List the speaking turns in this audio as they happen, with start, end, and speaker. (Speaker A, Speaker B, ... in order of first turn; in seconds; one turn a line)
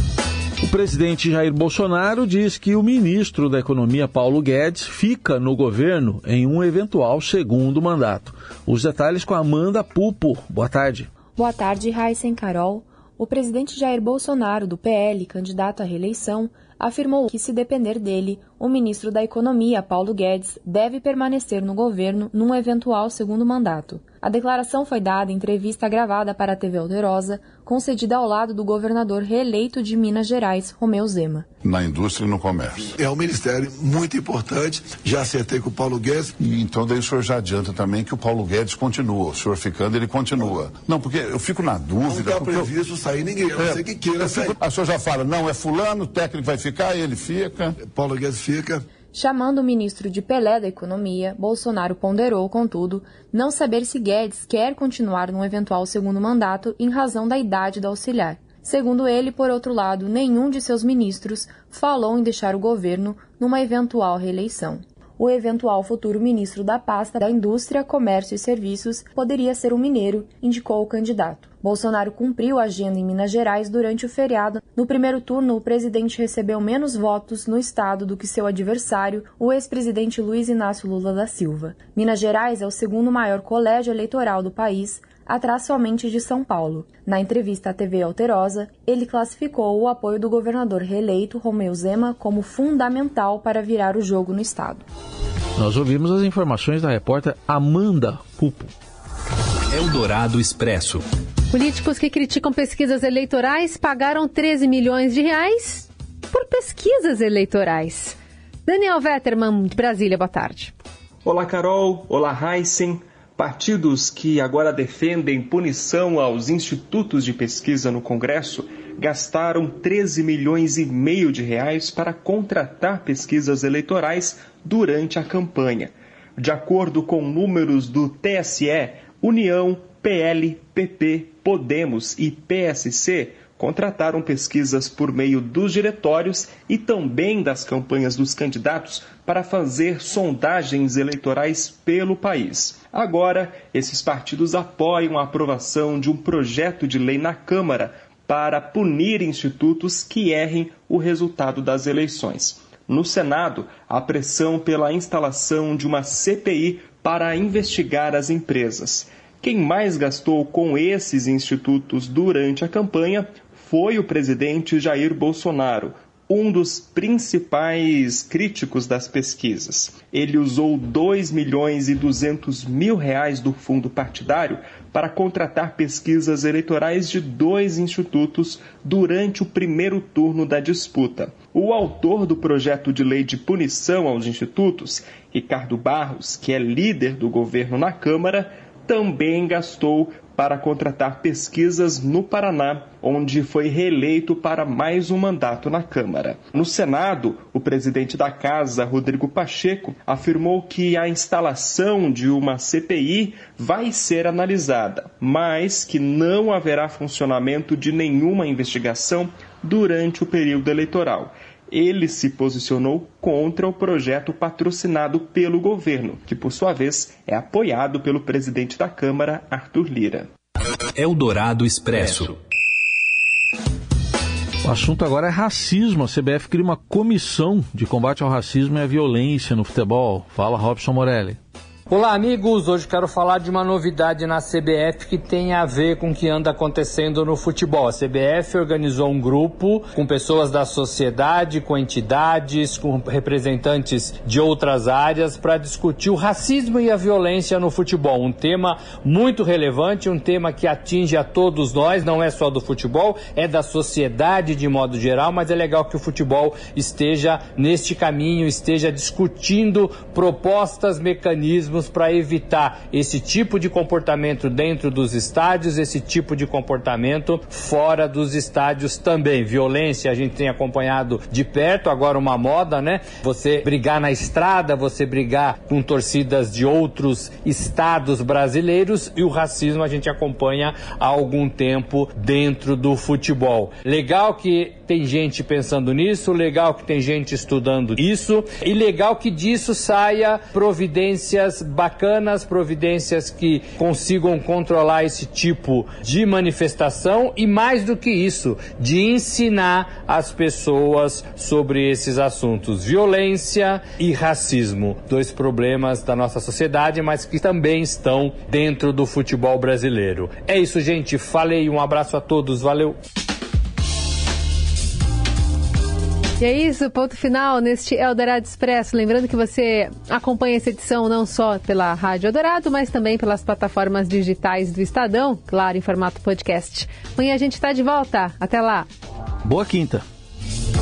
Speaker A: 0.6-11.1
Speaker B: 11.3-31.4
Speaker C: 31.6-32.9
Speaker D: 32.8-36.4
Speaker C: 36.4-42.8
Speaker D: 42.0-44.6
Speaker C: 43.5-47.8
Speaker D: 47.8-48.9
Speaker B: 49.1-94.8
Speaker A: 95.6-98.7
Speaker E: 99.7-101.0
Speaker F: 101.5-110.8
Speaker G: 111.2-220.3
Speaker E: 220.9-222.4
Speaker A: 224.6-231.4
Speaker H: 231.9-313.0
Speaker F: 316.4-328.9
Speaker A: 329.4-330.0